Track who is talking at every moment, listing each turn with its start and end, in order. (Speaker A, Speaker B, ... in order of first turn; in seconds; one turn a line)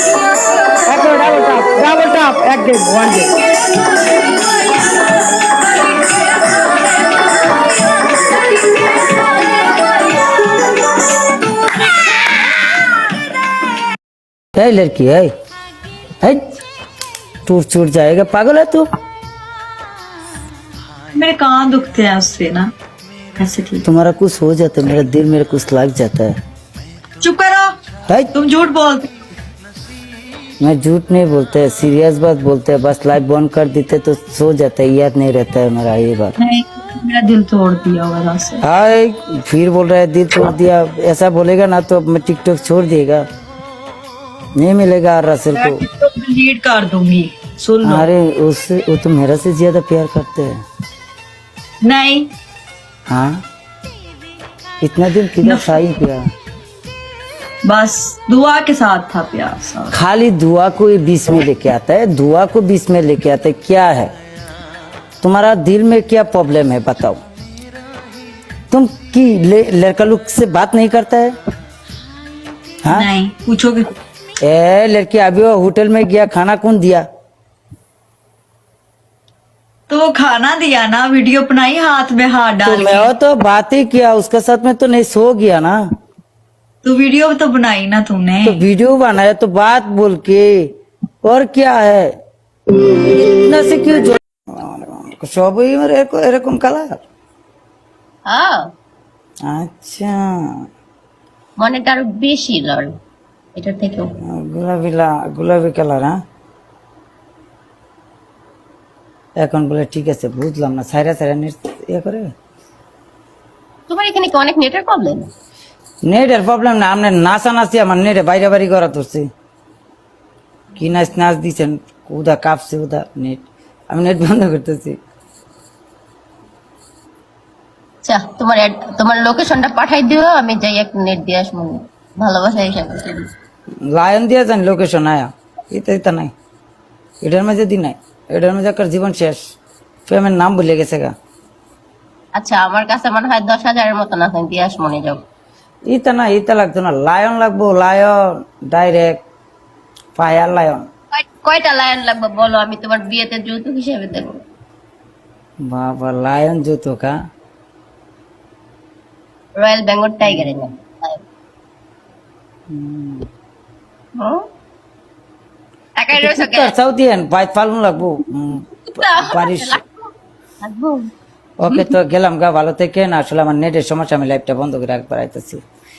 Speaker A: 0.9-3.3
Speaker B: 14.6-15.3
Speaker B: 16.2-16.6
Speaker B: 17.5-18.9
Speaker C: 21.1-22.7
Speaker C: 23.4-23.9
Speaker B: 23.8-26.4
Speaker C: 27.2-27.7
Speaker B: 28.1-28.3
Speaker C: 28.3-29.1
Speaker B: 30.6-36.4
Speaker C: 36.4-38.6
Speaker B: 38.6-43.2
Speaker B: 44.6-45.8
Speaker C: 45.5-48.1
Speaker B: 47.8-50.6
Speaker C: 51.8-52.3
Speaker B: 53.1-53.4
Speaker B: 54.8-56.3
Speaker C: 55.4-55.8
Speaker C: 57.7-60.0
Speaker B: 59.9-64.1
Speaker B: 65.2-67.2
Speaker B: 68.7-71.3
Speaker C: 72.9-73.9
Speaker B: 74.4-77.1
Speaker C: 79.9-83.1
Speaker B: 82.7-85.8
Speaker C: 86.8-88.6
Speaker B: 88.4-90.7
Speaker B: 91.2-92.1
Speaker B: 93.0-97.0
Speaker D: 98.3-98.6
Speaker B: 99.5-100.4
Speaker D: 101.6-102.9
Speaker D: 103.6-104.1
Speaker B: 104.2-106.2
Speaker B: 109.4-112.3
Speaker D: 113.9-115.3
Speaker B: 116.1-119.3
Speaker B: 120.8-125.0
Speaker D: 128.0-133.3
Speaker B: 133.9-136.3
Speaker B: 137.2-139.5
Speaker B: 140.1-141.1
Speaker D: 142.4-145.2
Speaker B: 145.9-149.2
Speaker B: 150.2-150.9
Speaker D: 151.2-154.4
Speaker B: 155.6-157.1
Speaker D: 159.6-161.2
Speaker B: 160.2-160.5
Speaker B: 162.7-163.3
Speaker D: 164.2-164.4
Speaker D: 166.0-166.7
Speaker B: 166.1-169.8
Speaker D: 168.9-170.0
Speaker D: 170.6-171.1
Speaker B: 171.6-175.6